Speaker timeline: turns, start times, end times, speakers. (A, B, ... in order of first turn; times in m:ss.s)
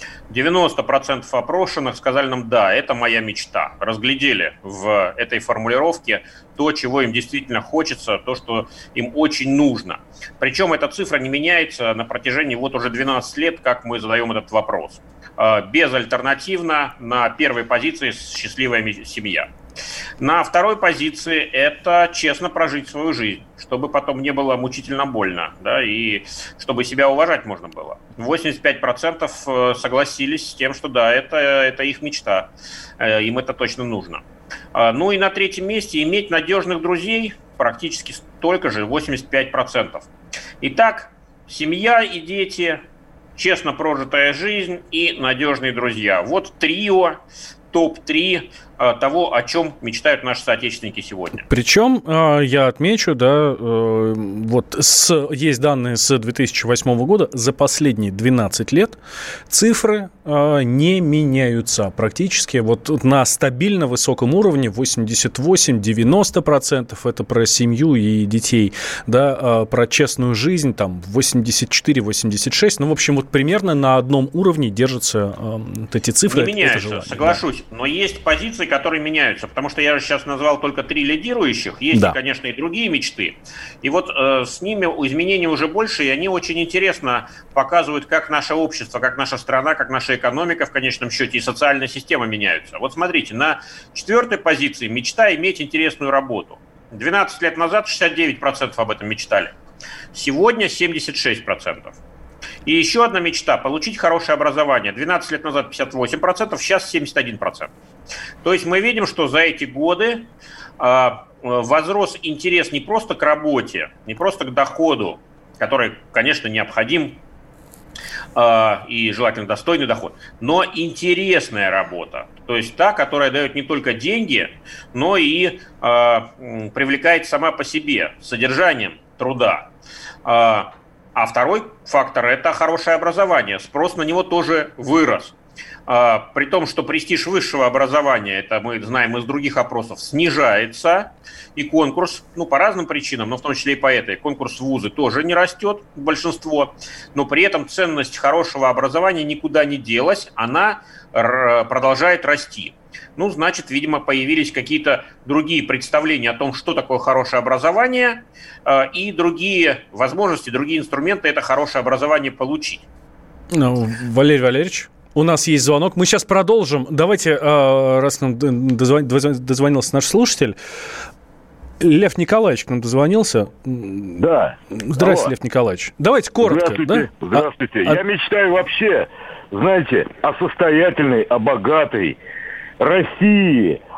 0:00.3-0:19.5 A
0:20.2-0:32.5 A
0:33.0-0:34.2 A
0:34.7-0:40.1 A
0:40.6-0:42.8 A
0:43.4-0:47.2 A
0:47.7-0:51.4 A
0:51.5-0:59.0 B
0:59.5-1:17.4 B
1:16.3-1:39.5 A
1:21.9-1:22.2 B
1:40.1-1:42.0 A
1:42.7-1:47.7 A
1:48.4-1:50.3 A
1:50.8-1:57.2 A
1:58.4-2:09.7 A
2:10.2-2:15.4 A
2:15.9-2:42.9 A
2:43.5-2:50.6 B
2:51.8-2:54.2 B
2:54.2-2:55.3 C
2:54.7-2:58.0 B
2:56.4-3:02.2 C
3:02.8-3:03.8 C